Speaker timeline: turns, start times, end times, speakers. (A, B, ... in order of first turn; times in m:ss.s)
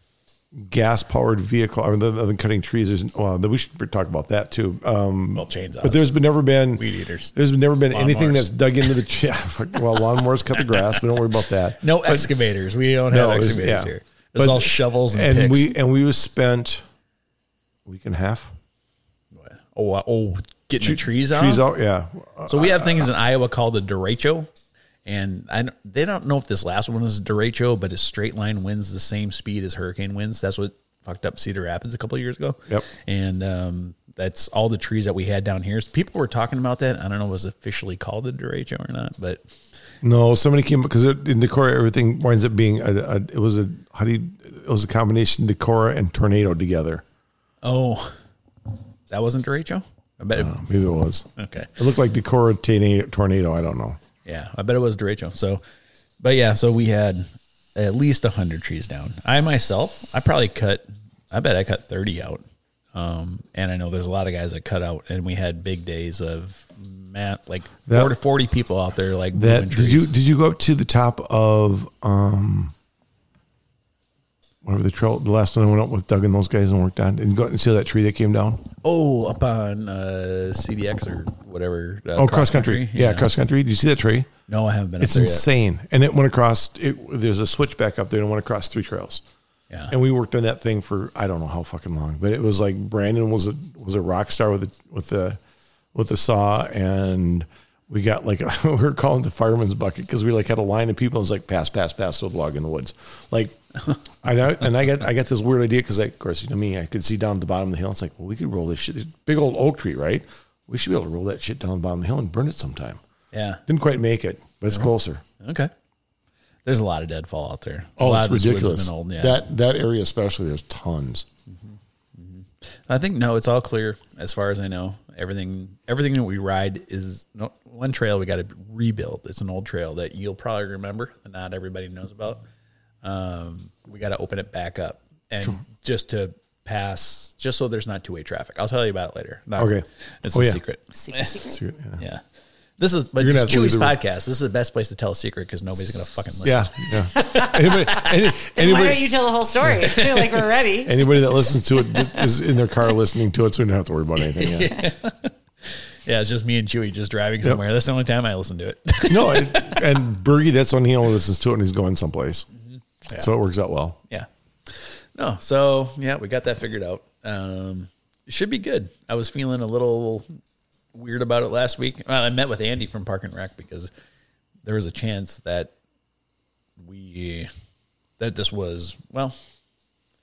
0:00.5-0:12.3 A
0:05.3-0:06.1 B
0:06.8-0:07.3 B
0:07.9-0:08.5 B
0:10.7-0:11.0 B
0:11.8-0:15.7 B
0:13.1-0:16.8 A
0:17.8-0:18.5 A
0:19.3-0:21.6 B
0:20.8-0:23.1 A
0:22.5-0:24.5 B
0:25.0-0:39.4 B
0:40.0-0:47.0 A
0:47.6-0:48.2 B
0:49.1-0:50.6 B
0:50.3-0:54.0 A
0:51.4-0:51.8 B
0:54.2-0:55.6 B
0:56.2-1:10.1 B
1:07.9-1:08.2 A
1:09.3-1:12.7 A
1:14.6-1:18.6 A
1:18.8-1:23.3 B
1:22.2-1:24.3 A
1:24.5-1:25.4 B
1:25.0-1:29.2 A
1:29.9-1:35.4 A
1:35.9-1:43.6 A
1:44.2-1:53.0 A
1:53.3-1:53.6 B
1:53.7-1:55.2 A
1:55.4-1:55.7 B
1:56.6-1:59.4 B
1:58.0-2:01.3 A
2:01.5-2:12.4 B
2:13.0-2:21.4 B
2:19.6-2:20.6 A
2:20.9-2:21.6 C
2:21.5-2:22.0 A
2:22.8-2:27.8 B
2:23.2-2:24.0 A
2:26.4-2:29.1 A
2:27.1-2:31.0 C
2:29.8-2:30.3 B
2:30.8-2:34.8 A
2:34.2-2:39.8 B
2:39.1-2:42.5 A
2:43.1-2:44.0 A
2:44.1-2:50.2 B
2:50.9-2:53.9 B
2:54.6-2:55.7 B
2:56.8-2:57.5 B
2:58.2-2:59.4 B